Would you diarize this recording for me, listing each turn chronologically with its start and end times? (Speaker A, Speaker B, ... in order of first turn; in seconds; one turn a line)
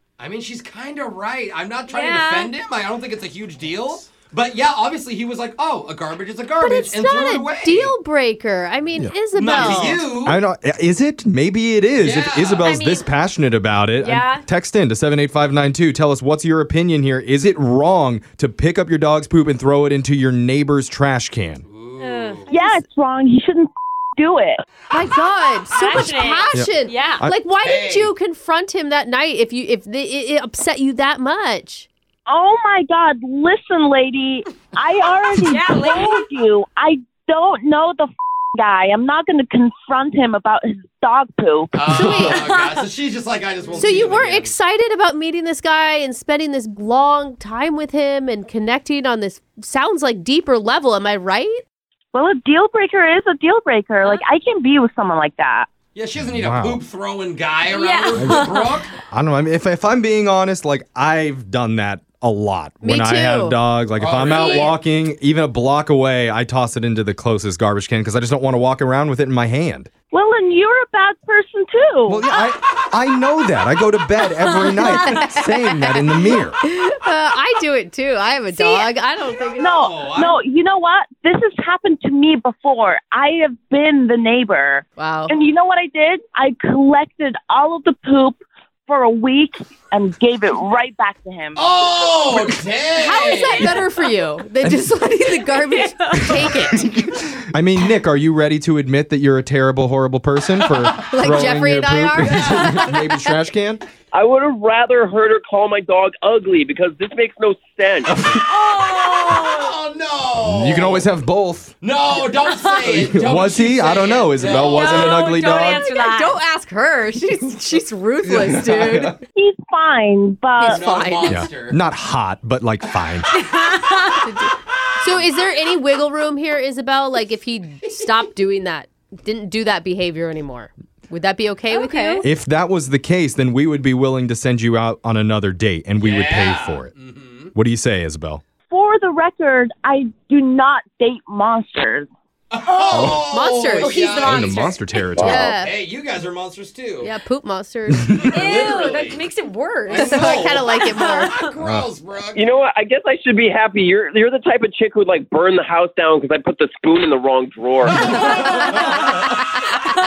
Speaker A: 0.2-7.9
Speaker B: 1.9-2.5
Speaker C: 6.6-10.1
Speaker D: 9.0-21.6
Speaker A: 9.3-10.4
Speaker A: 12.0-12.8
Speaker B: 12.6-13.1
Speaker B: 14.0-14.4
Speaker A: 21.7-22.5
Speaker B: 22.0-22.5
Speaker C: 22.5-22.9
Speaker E: 22.5-24.6
Speaker C: 24.9-31.9
Speaker B: 25.7-27.2
Speaker D: 25.9-27.4
Speaker A: 27.6-28.1
Speaker E: 32.3-42.3
Speaker B: 35.4-36.3
Speaker A: 41.7-44.6
Speaker C: 42.0-42.4
Speaker B: 42.3-42.9
Speaker C: 43.7-51.6
Speaker E: 52.1-55.7
Speaker A: 55.9-58.9
Speaker D: 56.2-56.8
Speaker B: 57.7-58.9
Speaker D: 58.1-69.9
Speaker C: 62.8-63.6
Speaker A: 64.0-64.8
Speaker E: 70.1-72.2
Speaker D: 72.1-76.6
Speaker C: 74.8-75.8
Speaker C: 76.6-79.7
Speaker E: 78.5-78.9
Speaker A: 79.6-80.4
Speaker E: 79.6-91.7
Speaker C: 85.0-85.4
Speaker A: 91.6-93.9
Speaker C: 93.0-96.9
Speaker D: 94.6-94.9
Speaker B: 95.9-96.5
Speaker D: 96.1-103.8
Speaker A: 100.6-101.0
Speaker C: 101.1-103.1
Speaker F: 104.1-108.2
Speaker D: 108.1-108.5
Speaker B: 108.5-109.8
Speaker A: 108.8-111.1
Speaker D: 110.4-111.8
Speaker A: 111.8-115.3
Speaker B: 112.5-113.0
Speaker D: 112.9-115.9
Speaker B: 114.5-116.4
Speaker C: 115.0-119.2
Speaker D: 118.2-119.1
Speaker E: 119.3-120.8
Speaker C: 120.5-121.4
Speaker A: 120.7-121.8
Speaker D: 121.3-123.3
Speaker B: 123.3-124.2
Speaker C: 124.2-132.3
Speaker B: 131.7-132.2
Speaker D: 132.2-136.9
Speaker A: 136.0-137.5
Speaker D: 137.5-138.4
Speaker E: 138.7-142.1
Speaker A: 142.5-147.2
Speaker D: 142.9-143.3
Speaker C: 143.2-144.1
Speaker B: 143.7-145.2
Speaker D: 144.2-145.5
Speaker F: 145.2-145.4
Speaker C: 145.2-145.8
Speaker C: 147.0-148.2
Speaker B: 148.2-151.5
Speaker A: 148.3-149.2
Speaker A: 149.9-152.5
Speaker C: 150.0-151.4
Speaker D: 151.6-151.9
Speaker F: 152.4-158.6
Speaker A: 157.9-159.4
Speaker B: 158.0-159.1
Speaker C: 158.8-159.7